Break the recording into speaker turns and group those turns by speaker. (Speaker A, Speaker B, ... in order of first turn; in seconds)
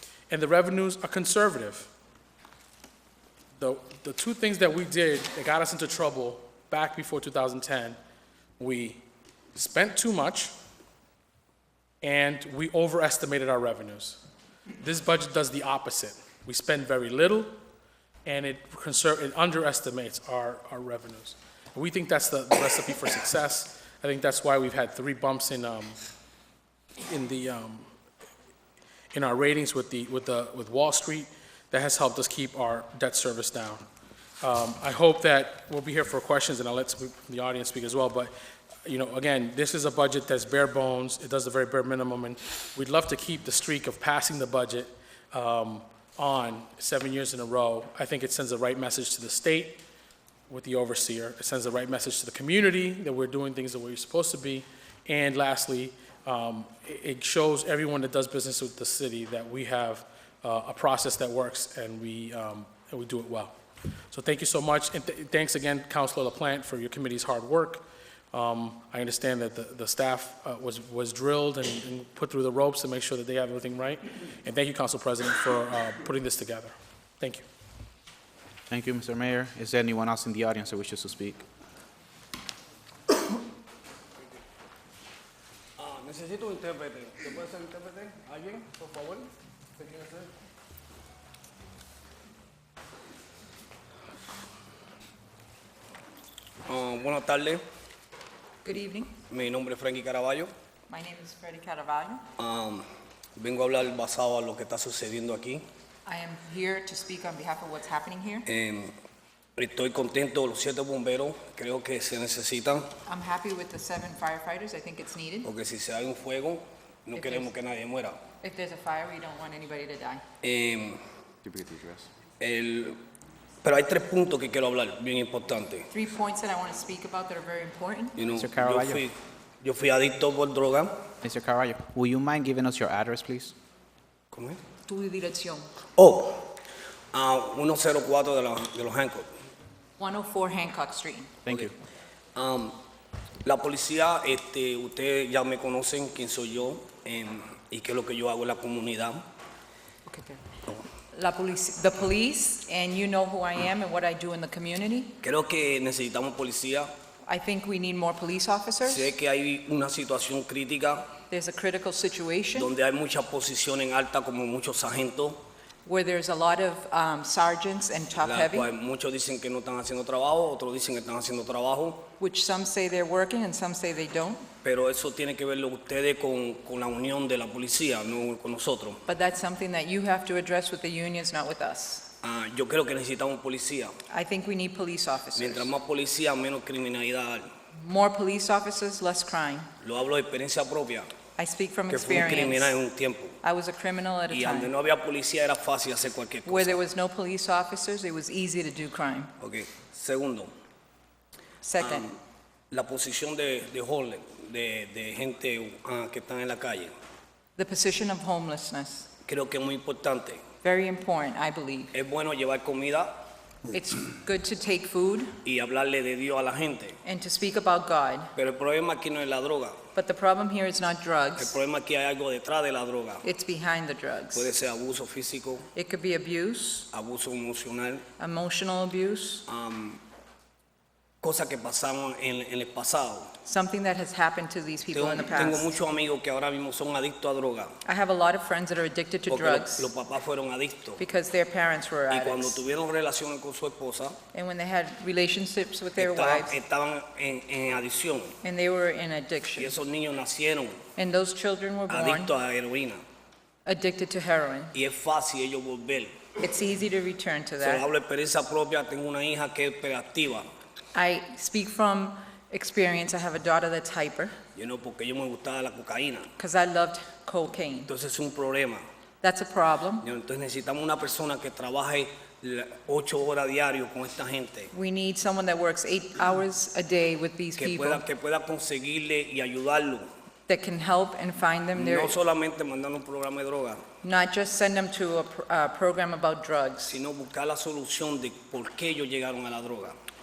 Speaker A: 0.3-1.9, 3.6-8.0, 8.6-9.0, 9.5-10.5, 12.0-14.2, 14.8-17.6, 18.2-26.0, 27.0-27.9, 29.1-33.8, 34.4-38.3, 38.9-49.8, 50.5-63.5, 64.1-77.5
Speaker B: 78.7-81.4, 128.3-129.1, 131.2-133.6, 141.4-141.7
Speaker C: 85.8-90.3, 96.7-97.6, 99.3-100.5, 102.4-105.7, 108.5-108.9, 109.6-113.0, 115.4-118.2, 120.4-121.0, 122.4-123.0, 123.6-125.9, 128.2-131.0, 134.3-134.6, 136.0-136.5, 137.1-139.3, 141.5-141.7, 142.3-142.8, 143.4-149.2, 155.2-156.9, 158.9-161.2, 162.6-165.4, 168.2-172.1, 174.6-179.0, 182.2-183.9, 185.3-187.5, 189.8-191.2, 191.9-193.4, 194.3-196.8, 199.4-200.5, 201.8-202.2, 202.7-206.9, 209.3-210.5, 211.9-213.2, 215.4-217.0, 218.4-219.9, 221.4-223.2, 224.3-225.7, 226.9-228.1, 229.5-230.0, 231.2-233.3, 234.9-237.8, 239.3-241.0, 242.1-244.2, 246.0-248.4, 249.6-250.9, 251.9-253.0, 254.7-256.3, 257.6-260.5, 264.6-266.3, 267.9-268.9, 270.0-274.7, 277.6-280.1, 281.8-283.8, 286.9-290.0
Speaker D: 98.6-99.2, 100.9-102.2, 106.1-108.5, 113.1-115.5, 117.2-117.5, 118.4-120.2, 125.9-128.2, 134.9-135.7, 140.0-141.4, 150.1-150.4, 151.1-155.2, 157.3-159.1, 161.3-162.7, 165.9-168.7, 172.2-174.5, 179.1-182.1, 184.1-185.7, 187.8-189.7, 191.4-192.7, 193.4-194.7, 196.5-199.3, 201.6-202.1, 207.6-209.1, 210.6-211.9, 213.7-215.3, 217.1-218.3, 219.9-221.6, 223.2-224.5, 225.8-226.9, 228.2-229.4, 233.4-235.6, 237.8-239.9, 241.0-242.6, 244.3-246.6, 248.4-249.7, 251.0-252.3, 253.7-254.7, 256.4-257.9, 260.9-264.4, 266.4-267.9, 269.2-270.0, 274.7-278.0, 280.5-282.1, 284.0-287.0